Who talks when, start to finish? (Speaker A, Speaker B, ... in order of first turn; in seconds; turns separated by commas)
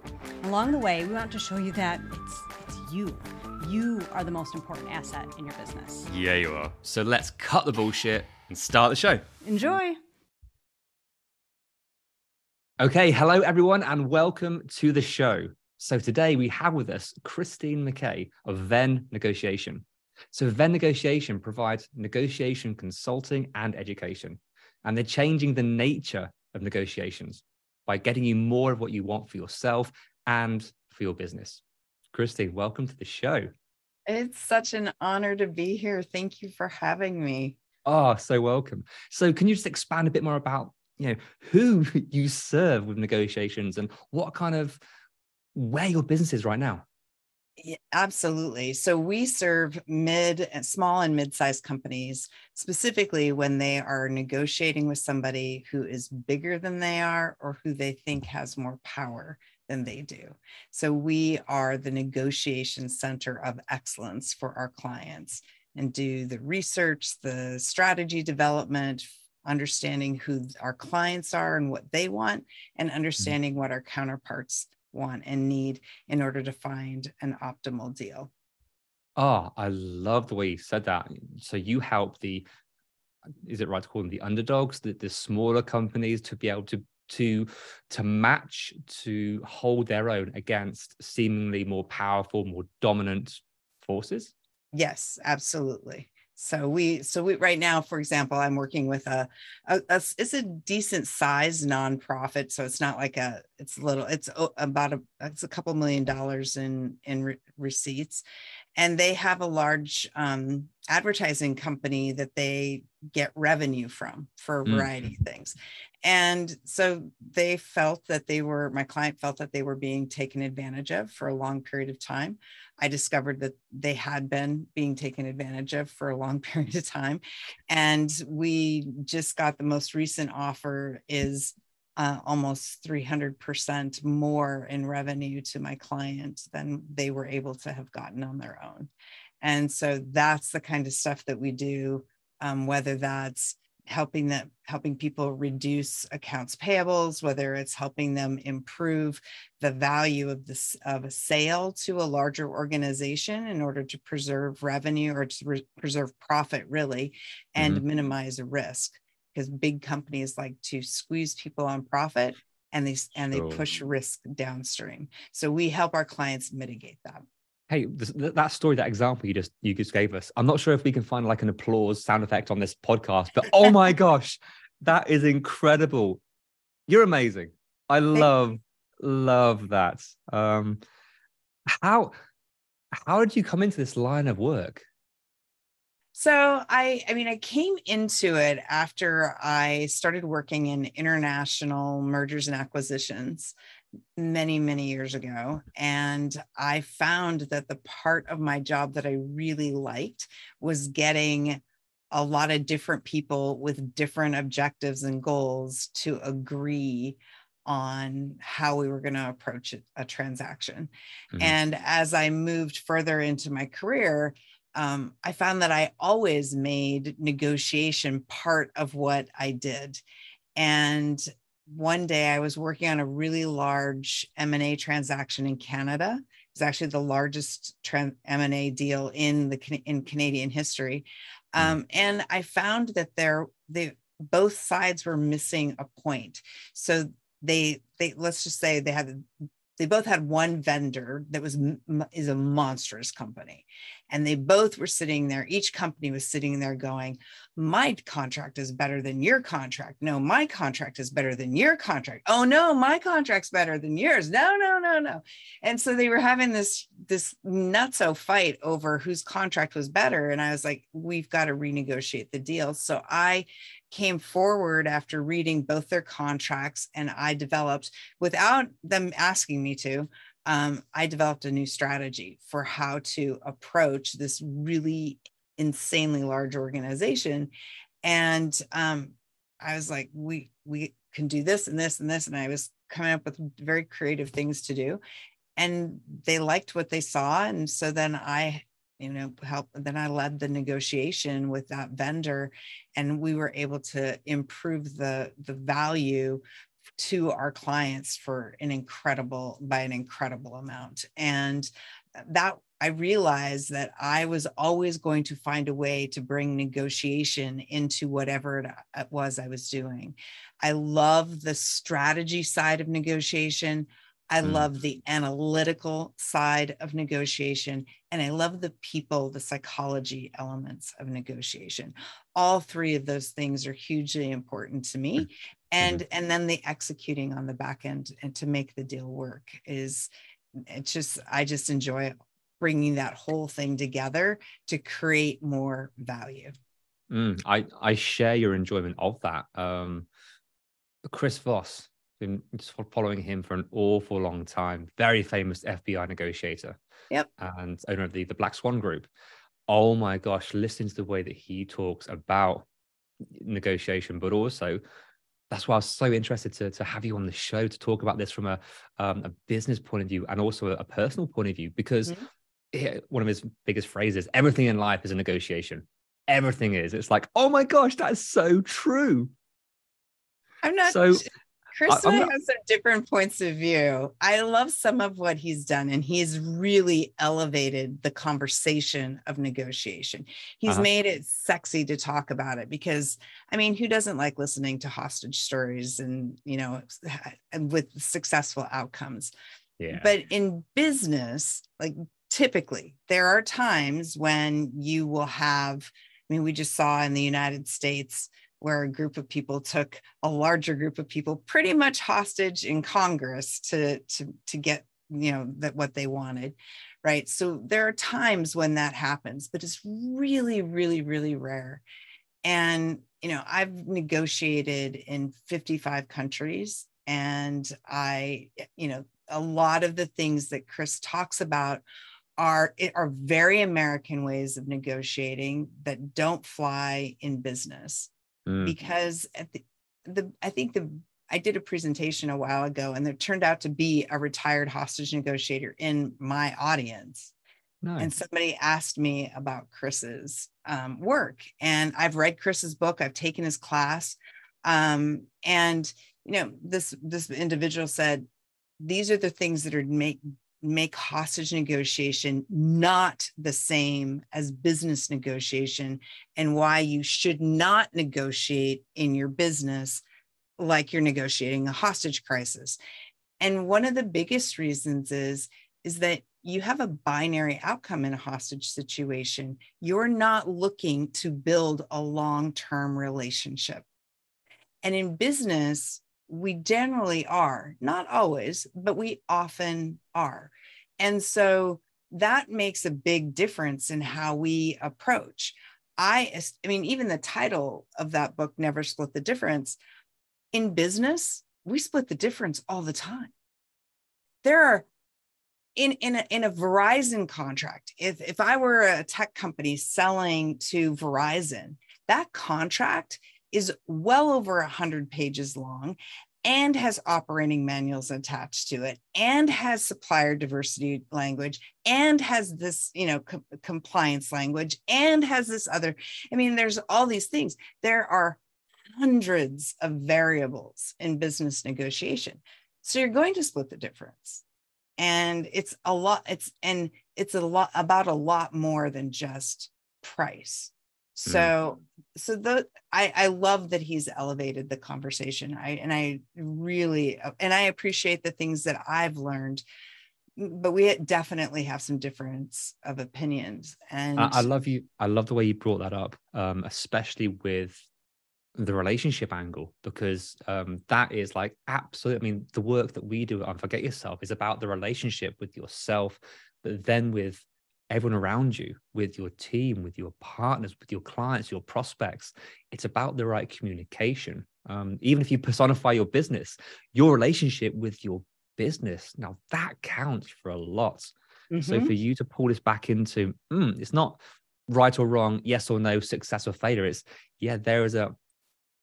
Speaker A: 0.4-6.1, Speaker B: 6.1-9.2, Speaker A: 9.4-10.0, Speaker B: 12.8-31.6, Speaker B: 32.1-33.5, Speaker C: 34.1-37.6, Speaker B: 37.9-44.8, Speaker B: 45.5-46.9, Speaker C: 47.6-78.3, Speaker B: 79.2-82.5, Speaker B: 83.4-94.3, Speaker C: 94.8-108.2, Speaker C: 108.8-138.9, Speaker B: 114.7-114.9, Speaker C: 139.4-167.2, Speaker B: 157.6-157.8, Speaker B: 163.3-163.6, Speaker B: 167.7-176.2, Speaker B: 176.9-180.8, Speaker B: 181.7-182.1, Speaker B: 183.0-184.8, Speaker C: 186.1-193.5, Speaker C: 194.2-201.6, Speaker C: 202.1-220.0, Speaker C: 220.6-277.5, Speaker C: 278.0-285.0, Speaker C: 285.6-296.4, Speaker C: 297.0-330.1, Speaker C: 330.7-336.5, Speaker B: 337.1-340.1, Speaker B: 341.1-346.8, Speaker B: 347.4-349.1, Speaker B: 349.7-352.7, Speaker B: 353.3-354.8, Speaker B: 355.5-362.2, Speaker B: 362.7-369.3, Speaker C: 370.6-389.3, Speaker B: 370.9-371.2, Speaker B: 371.9-372.3, Speaker B: 389.8-390.1, Speaker C: 389.9-411.8, Speaker C: 412.4-421.8, Speaker C: 422.4-428.1, Speaker B: 428.5-428.8, Speaker C: 428.6-437.3, Speaker B: 437.8-438.1, Speaker C: 438.0-448.2, Speaker C: 448.8-460.0, Speaker C: 460.6-462.8, Speaker C: 463.4-473.9, Speaker C: 474.8-489.8, Speaker C: 490.5-493.3, Speaker C: 494.4-494.9, Speaker C: 495.8-518.4, Speaker C: 519.0-524.4, Speaker C: 525.0-539.6, Speaker B: 531.3-531.5, Speaker C: 540.4-544.5, Speaker B: 544.2-547.9, Speaker B: 548.6-578.1, Speaker C: 571.5-571.9